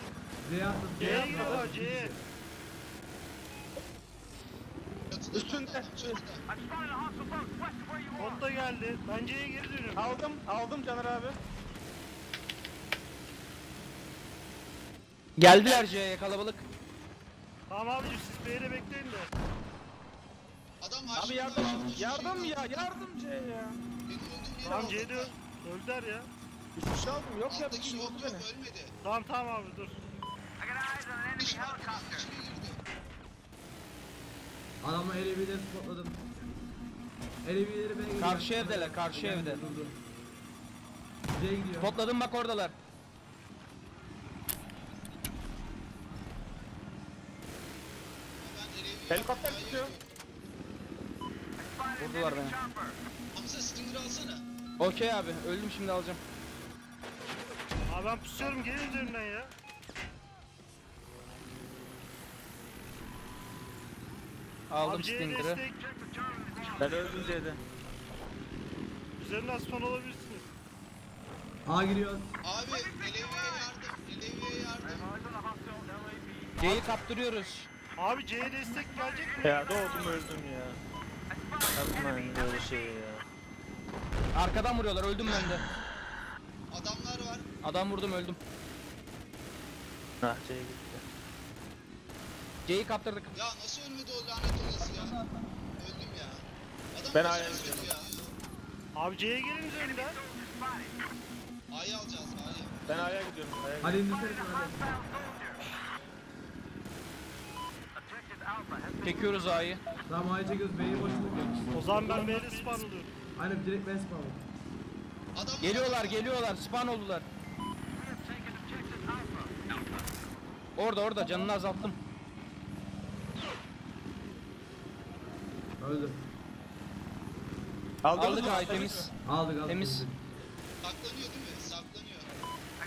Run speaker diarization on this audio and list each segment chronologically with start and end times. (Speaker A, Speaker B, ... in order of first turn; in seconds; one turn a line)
Speaker A: 0.4-2.2
Speaker B: 1.0-1.7
Speaker C: 1.0-2.1
Speaker D: 5.1-6.4
Speaker B: 5.3-6.2
Speaker C: 8.1-10.1
Speaker B: 9.9-11.4
Speaker E: 15.4-16.6
Speaker D: 15.6-15.9
Speaker C: 17.7-19.3
Speaker D: 20.8-22.9
Speaker B: 21.1-23.8
Speaker D: 24.0-25.3
Speaker B: 24.6-24.9
Speaker C: 24.6-26.3
Speaker B: 26.8-28.5
Speaker D: 26.9-28.9
Speaker C: 29.0-30.0
Speaker D: 31.3-32.8
Speaker A: 34.8-36.3
Speaker A: 37.4-40.0
Speaker E: 38.2-39.6
Speaker A: 41.3-41.9
Speaker E: 41.8-42.7
Speaker D: 48.4-50.1
Speaker B: 49.1-49.9
Speaker E: 52.0-52.6
Speaker D: 53.3-54.4
Speaker E: 54.8-56.2
Speaker C: 57.9-59.5
Speaker E: 64.7-65.6
Speaker C: 64.8-65.8
Speaker B: 66.8-67.6
Speaker C: 69.2-70.5
Speaker A: 71.7-72.3
Speaker D: 72.4-75.1
Speaker E: 76.6-77.7
Speaker C: 78.0-80.1
Speaker B: 79.4-80.8
Speaker B: 81.7-83.2
Speaker E: 84.3-85.6
Speaker D: 85.2-85.6
Speaker D: 86.7-87.5
Speaker E: 87.6-88.4
Speaker B: 90.2-91.0
Speaker E: 92.7-93.3
Speaker D: 93.3-95.2
Speaker D: 95.8-98.2
Speaker B: 97.1-97.9
Speaker C: 98.9-100.2
Speaker D: 101.7-103.2
Speaker B: 102.9-104.0
Speaker A: 103.8-105.0
Speaker E: 109.0-109.8
Speaker A: 110.1-111.9
Speaker C: 111.7-113.1
Speaker A: 113.3-114.4
Speaker D: 115.3-116.3
Speaker E: 115.6-117.2
Speaker E: 120.8-122.0
Speaker A: 125.8-126.2
Speaker B: 128.0-129.1
Speaker E: 128.1-129.1
Speaker A: 129.2-130.2
Speaker E: 129.7-130.1
Speaker D: 130.8-132.3